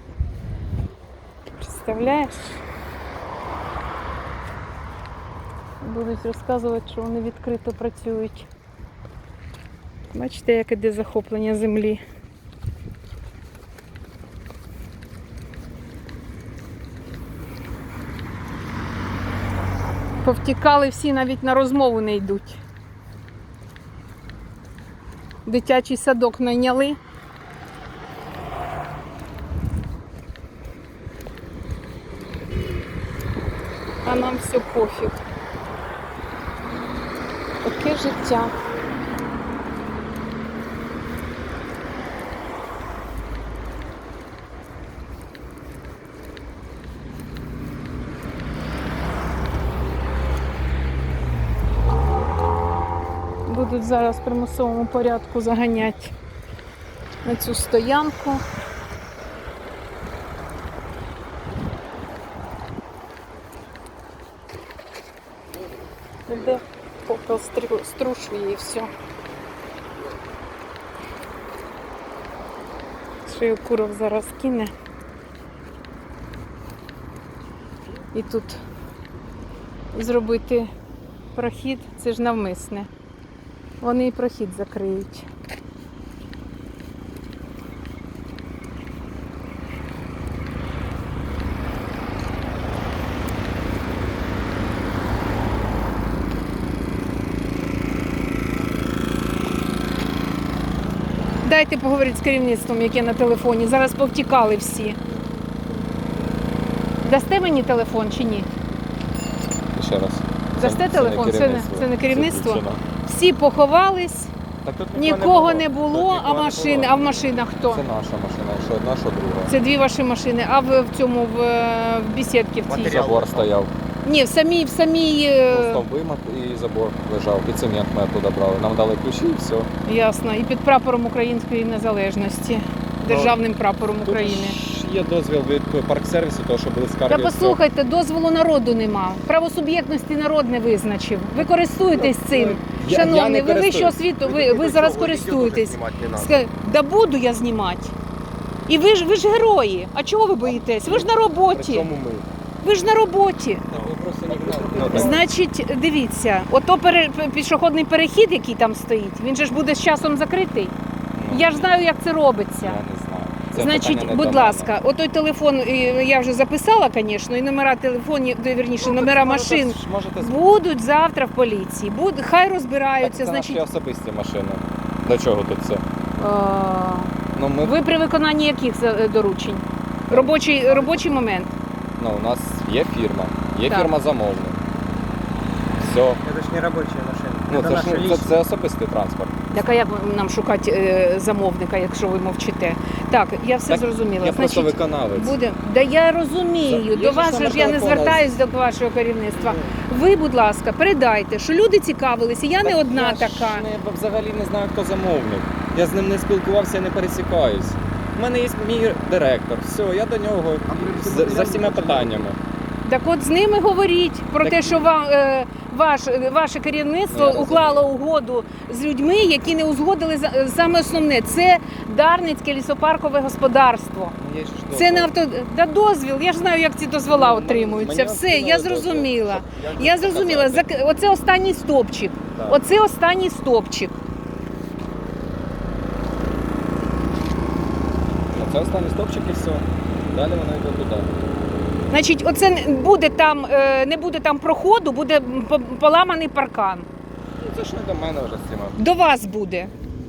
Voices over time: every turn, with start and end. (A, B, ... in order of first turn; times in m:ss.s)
0:01.6-0:02.6 A
0:05.8-0:08.5 A
0:10.1-0:12.0 A
0:20.2-0:22.6 A
0:25.4-0:27.0 A
0:34.0-0:35.2 A
0:37.6-0:38.5 A
0:53.5-0:56.1 A
0:57.2-0:58.4 A
1:06.3-1:08.9 A
1:13.2-1:14.7 A
1:18.1-1:18.6 A
1:19.9-1:20.7 A
1:21.3-1:22.9 A
1:23.8-1:25.3 A
1:41.4-1:45.0 A
1:47.0-1:48.5 A
1:49.7-1:52.8 B
1:50.6-1:54.3 A
1:54.6-1:57.1 B
1:54.9-1:57.8 A
1:57.7-1:59.5 B
1:59.5-2:02.9 A
2:02.6-2:03.5 C
2:02.8-2:03.7 B
2:04.0-2:05.8 A
2:05.5-2:09.7 B
2:09.8-2:14.6 A
2:13.0-2:13.4 B
2:14.0-2:17.6 B
2:17.1-2:27.9 A
2:22.0-2:24.0 B
2:24.2-2:26.4 C
2:28.7-2:31.9 A
2:30.6-2:32.3 C
2:32.6-2:33.7 A
2:33.7-2:35.2 C
2:33.7-2:35.2 B
2:34.8-2:40.7 A
2:41.2-2:41.7 B
2:41.3-2:42.8 A
2:42.6-2:44.7 B
2:43.5-2:53.6 A
2:48.8-2:50.4 B
2:53.0-2:55.8 B
2:56.2-3:01.5 A
2:57.3-2:57.8 B
3:00.1-3:01.1 B
3:02.0-3:04.6 B
3:03.7-3:03.9 A
3:05.8-3:06.2 B
3:06.2-3:08.3 C
3:07.5-3:09.3 B
3:09.5-3:23.7 A
3:13.7-3:15.3 B
3:16.7-3:18.4 B
3:19.3-3:19.8 B
3:22.6-3:32.4 B
3:30.7-3:32.3 C
3:32.8-3:44.2 A
3:34.4-3:34.9 B
3:37.1-3:37.9 B
3:44.2-3:45.1 B
3:44.7-3:54.0 A
3:47.0-3:50.7 B
3:52.3-3:52.6 B
3:58.3-4:01.1 B
4:01.9-4:06.9 A
4:07.4-4:08.8 B
4:08.8-4:09.7 A